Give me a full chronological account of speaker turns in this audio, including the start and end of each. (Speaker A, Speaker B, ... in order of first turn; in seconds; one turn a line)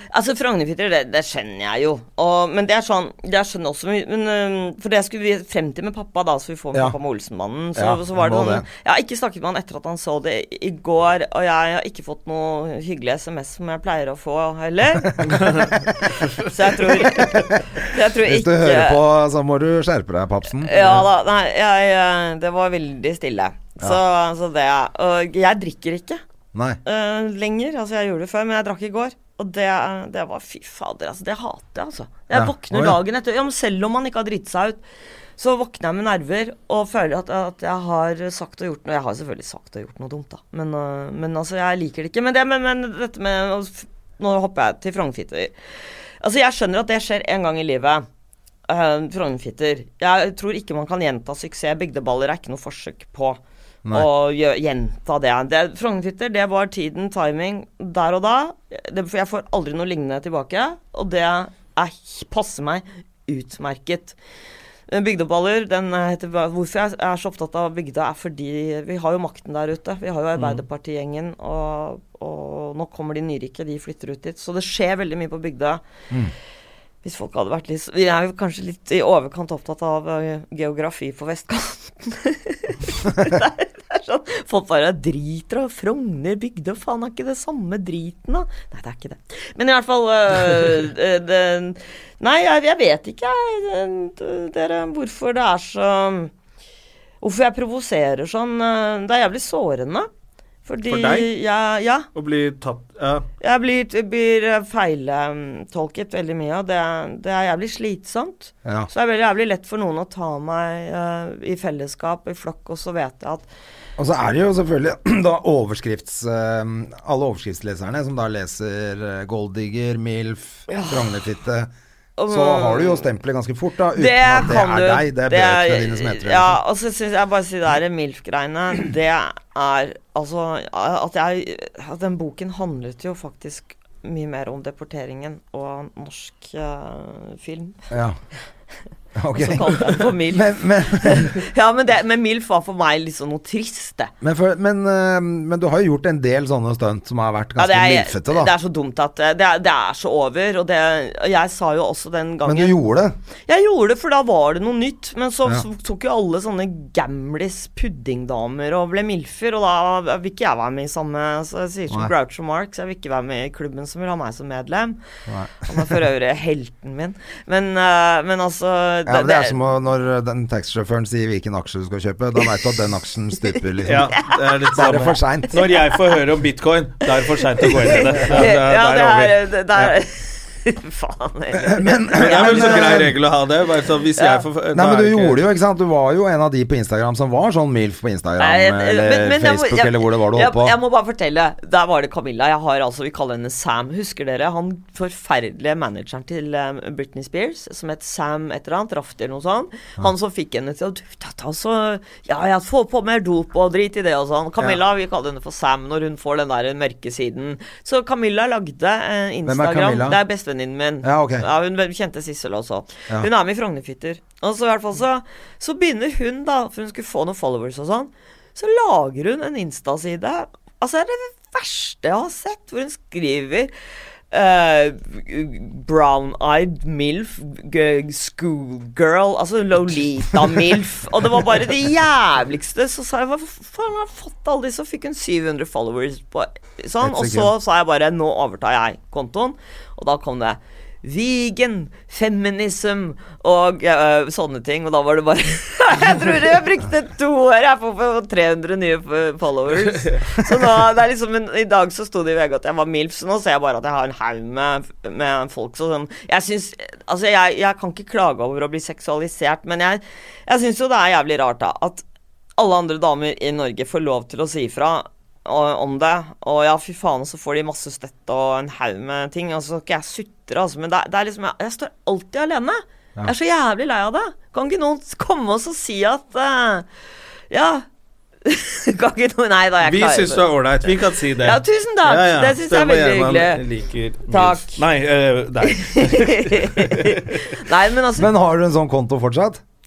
Speaker A: 0.1-19.0
Speaker B: 7.8-8.7
Speaker B: 15.0-15.9
Speaker C: 15.3-15.7
Speaker B: 17.1-21.1
Speaker A: 20.6-26.2
Speaker B: 26.5-26.8
Speaker A: 26.8-34.8
Speaker B: 32.3-33.0
Speaker A: 35.4-45.5
Speaker A: 46.2-48.0
Speaker A: 48.7-53.4
Speaker A: 53.9-64.2
Speaker A: 64.9-75.8
Speaker C: 70.3-70.6
Speaker A: 77.0-96.3
Speaker A: 97.2-100.1
Speaker A: 100.6-102.1
Speaker C: 100.9-101.3
Speaker C: 102.1-103.3
Speaker A: 103.4-113.5
Speaker B: 114.0-121.7
Speaker A: 120.7-121.1
Speaker A: 122.2-123.1
Speaker B: 122.3-126.6
Speaker A: 123.9-137.8
Speaker B: 137.9-138.2
Speaker B: 139.2-141.4
Speaker A: 139.3-144.1
Speaker B: 144.2-148.5
Speaker A: 147.6-152.8
Speaker B: 152.4-153.1
Speaker A: 153.5-165.0
Speaker B: 165.3-165.9
Speaker A: 165.6-169.6
Speaker B: 169.1-174.2
Speaker C: 173.8-179.9
Speaker B: 174.7-175.6
Speaker A: 177.6-183.1
Speaker B: 178.1-178.5
Speaker B: 181.5-183.1
Speaker C: 182.2-185.4
Speaker A: 184.2-184.4
Speaker B: 184.7-190.8
Speaker A: 188.4-223.7
Speaker B: 209.4-210.2
Speaker B: 211.0-211.4
Speaker A: 224.3-262.0
Speaker B: 237.0-237.5
Speaker A: 262.6-276.9
Speaker A: 277.5-277.8
Speaker A: 278.4-283.6
Speaker C: 279.8-287.6
Speaker A: 284.3-284.8
Speaker A: 285.6-288.3
Speaker B: 288.2-289.6